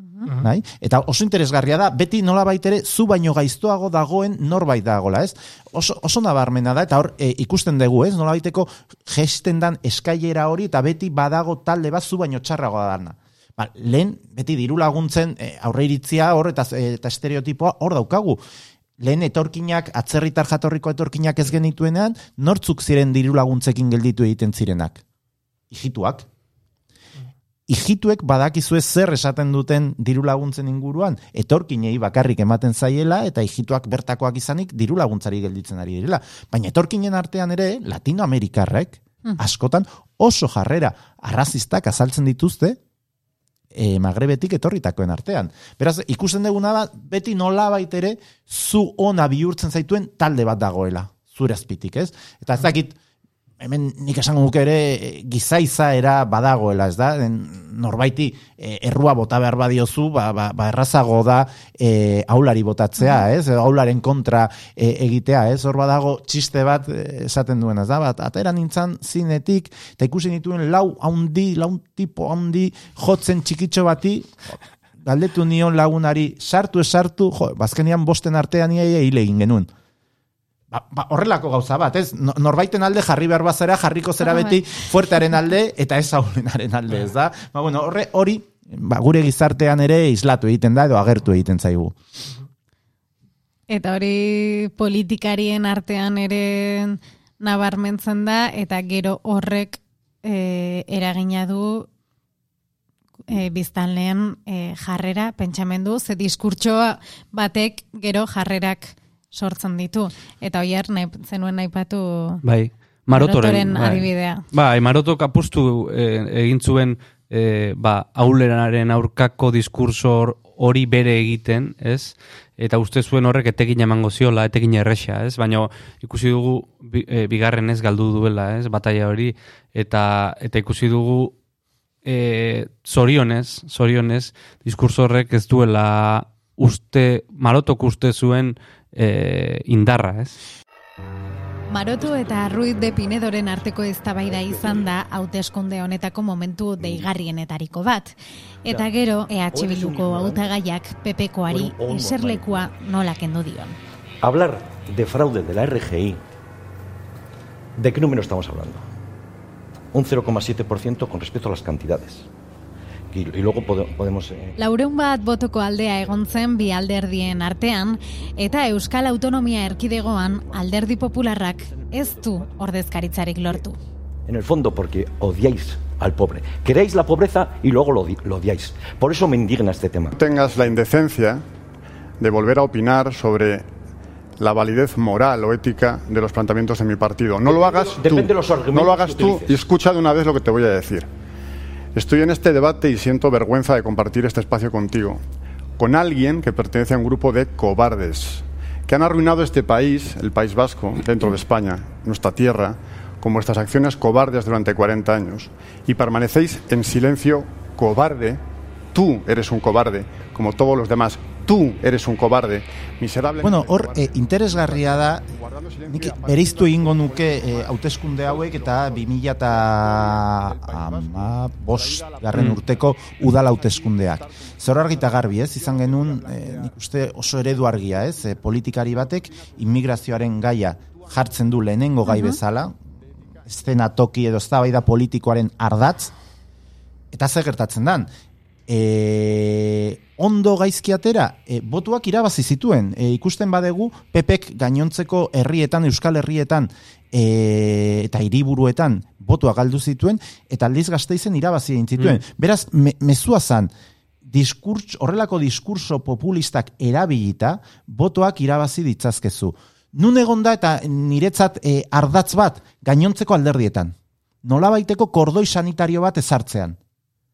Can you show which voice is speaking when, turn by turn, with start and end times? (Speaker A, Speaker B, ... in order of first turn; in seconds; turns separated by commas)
Speaker A: 0.4-18.4, Speaker A: 19.0-25.0, Speaker A: 25.7-26.3, Speaker A: 27.7-42.8, Speaker A: 43.7-53.0, Speaker A: 53.6-74.4, Speaker A: 75.0-79.7, Speaker A: 80.7-92.0, Speaker B: 93.7-101.9, Speaker B: 103.3-112.4, Speaker C: 112.4-131.3, Speaker B: 113.2-114.4, Speaker C: 132.1-140.4, Speaker B: 141.7-153.8, Speaker D: 144.4-144.9, Speaker D: 148.7-150.5, Speaker D: 151.5-152.5, Speaker D: 154.2-156.2, Speaker D: 157.8-158.8, Speaker D: 159.9-162.3, Speaker D: 163.1-164.5, Speaker B: 164.6-173.8, Speaker D: 174.3-180.1, Speaker E: 180.1-181.4, Speaker E: 182.2-183.7, Speaker E: 184.4-191.1, Speaker D: 187.4-189.5, Speaker E: 191.9-195.2, Speaker E: 195.8-208.4, Speaker E: 208.9-217.7, Speaker A: 213.4-215.3, Speaker A: 215.9-232.8, Speaker E: 218.3-219.0, Speaker E: 219.9-221.2, Speaker E: 221.7-222.3, Speaker E: 225.6-226.3, Speaker B: 232.1-232.4, Speaker A: 233.4-236.1, Speaker A: 237.1-238.1, Speaker A: 238.7-253.7, Speaker A: 254.3-266.8